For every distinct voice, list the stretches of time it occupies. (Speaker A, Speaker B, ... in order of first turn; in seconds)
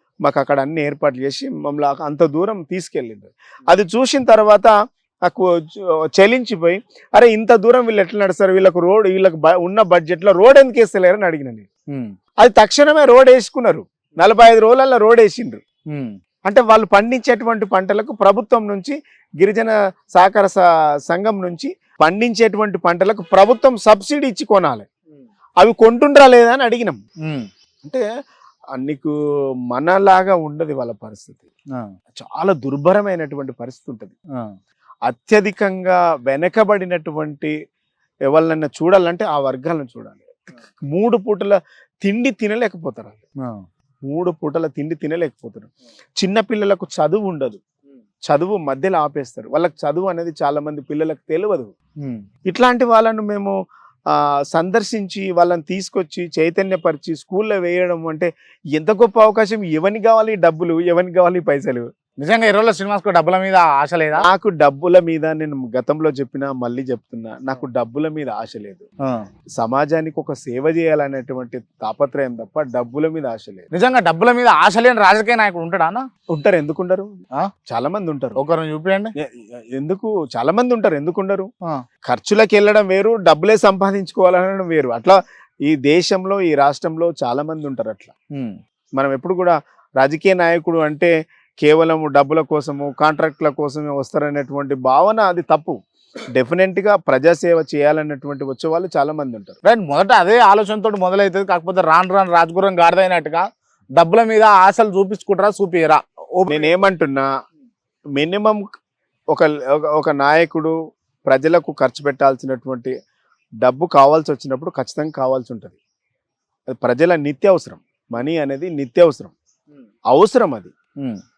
Speaker A: 0.2-4.7, 5.3-11.7, 12.4-15.6, 16.4-24.9, 25.6-27.0, 28.8-29.1, 29.7-31.4, 32.1-34.1, 35.1-37.5, 38.3-43.2, 44.1-47.6, 48.3-51.7, 52.5-53.6, 54.1-61.9, 64.2-68.9, 69.6-73.7, 76.3-77.1, 77.7-78.4, 79.2-81.5, 82.1-88.1, 89.0-95.8, 96.3-99.6, 106.5-107.3, 108.2-108.7, 109.3-110.8, 111.3-112.9, 113.6-115.8, 116.7-119.3, 120.1-120.7
Speaker B: 15.9-16.2, 62.2-64.2, 73.7-76.0, 78.4-79.1, 99.7-106.7